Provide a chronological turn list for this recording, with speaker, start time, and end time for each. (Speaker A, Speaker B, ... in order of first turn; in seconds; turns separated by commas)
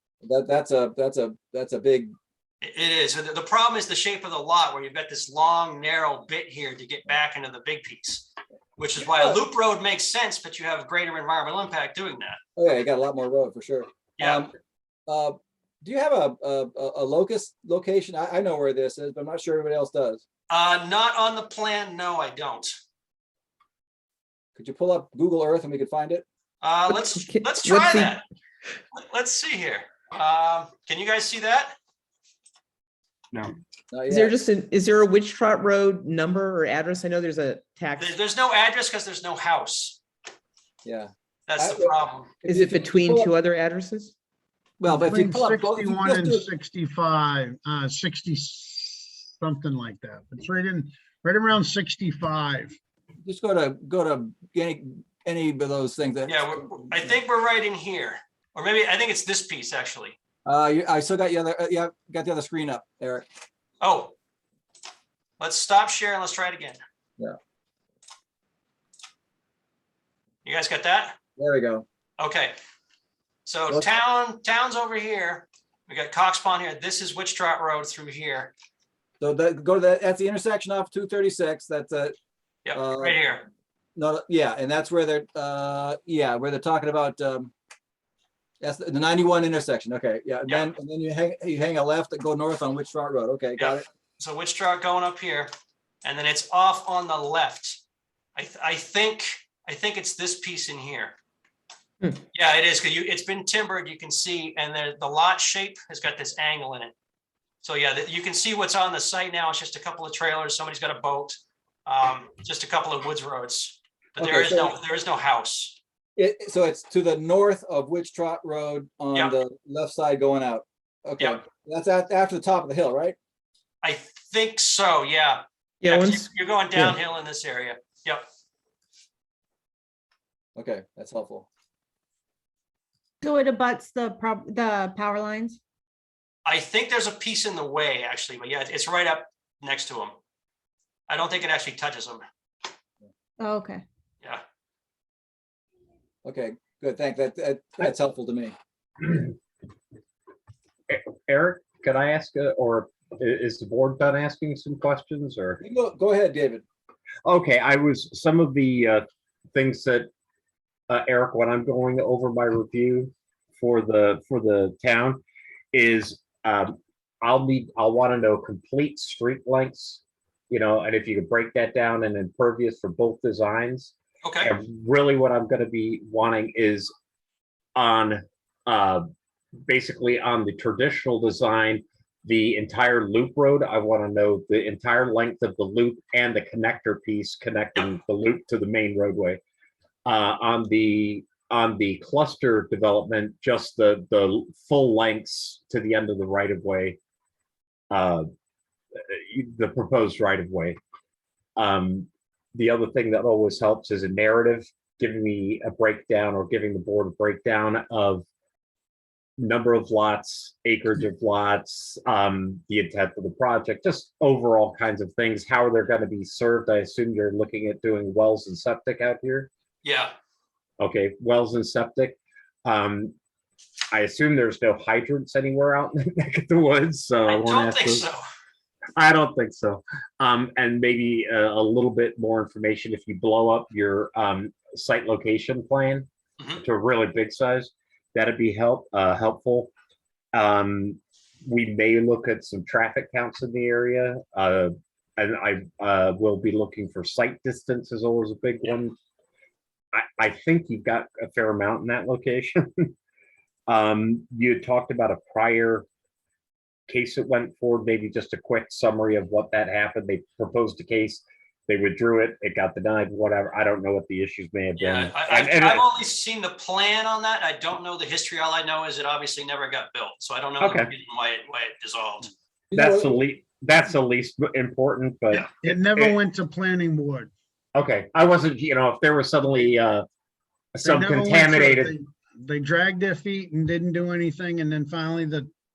Speaker A: 0.2-2.1, Speaker B: 2.6-12.4, Speaker A: 9.0-9.4, Speaker A: 12.6-14.5, Speaker B: 14.2-14.4, Speaker A: 15.1-20.2, Speaker B: 20.5-22.7, Speaker A: 24.5-26.2, Speaker B: 26.6-28.2, Speaker C: 27.3-28.1, Speaker B: 28.9-31.7, Speaker A: 33.9-34.4, Speaker C: 34.1-38.2, Speaker B: 38.0-40.0, Speaker A: 40.8-43.3, Speaker B: 41.5-42.4, Speaker C: 42.5-44.1, Speaker A: 44.8-46.5, Speaker D: 44.9-52.8, Speaker A: 53.2-57.1, Speaker B: 56.2-60.1, Speaker A: 60.4-63.2, Speaker B: 63.8-64.1, Speaker B: 65.4-66.8, Speaker B: 70.4-71.2, Speaker A: 71.4-71.8, Speaker B: 72.2-72.5, Speaker B: 73.5-78.5, Speaker A: 79.2-82.1, Speaker B: 82.6-83.5, Speaker A: 82.7-83.2, Speaker A: 84.0-87.5, Speaker A: 88.6-93.8, Speaker B: 93.6-95.5, Speaker B: 96.0-97.8, Speaker B: 98.3-101.2, Speaker B: 102.3-106.9, Speaker B: 107.6-115.8, Speaker A: 114.2-114.8, Speaker A: 116.2-123.2, Speaker B: 123.8-128.2, Speaker C: 125.8-126.2, Speaker A: 130.6-131.5, Speaker E: 133.2-135.6, Speaker B: 136.4-140.2, Speaker B: 141.1-142.2, Speaker E: 143.4-143.8, Speaker A: 146.2-148.5, Speaker F: 150.9-155.6, Speaker A: 155.6-156.6, Speaker F: 157.2-159.0, Speaker F: 159.5-160.1, Speaker F: 160.9-176.9, Speaker B: 174.2-174.5, Speaker F: 177.8-179.1, Speaker F: 179.6-189.4, Speaker F: 190.1-197.0, Speaker F: 197.9-198.2, Speaker F: 199.0-200.8, Speaker F: 201.6-208.2, Speaker F: 209.4-219.5, Speaker B: 219.8-220.1, Speaker F: 220.8-223.1, Speaker F: 223.9-228.1, Speaker B: 227.2-228.2, Speaker F: 229.0-239.7, Speaker F: 240.3-248.9, Speaker F: 249.9-252.9, Speaker F: 253.7-255.8, Speaker F: 256.9-265.8, Speaker B: 264.8-272.3, Speaker F: 270.6-270.9, Speaker A: 272.7-273.2, Speaker F: 272.7-276.1, Speaker D: 275.6-277.3, Speaker F: 277.7-280.1, Speaker F: 280.8-281.9, Speaker D: 280.8-285.5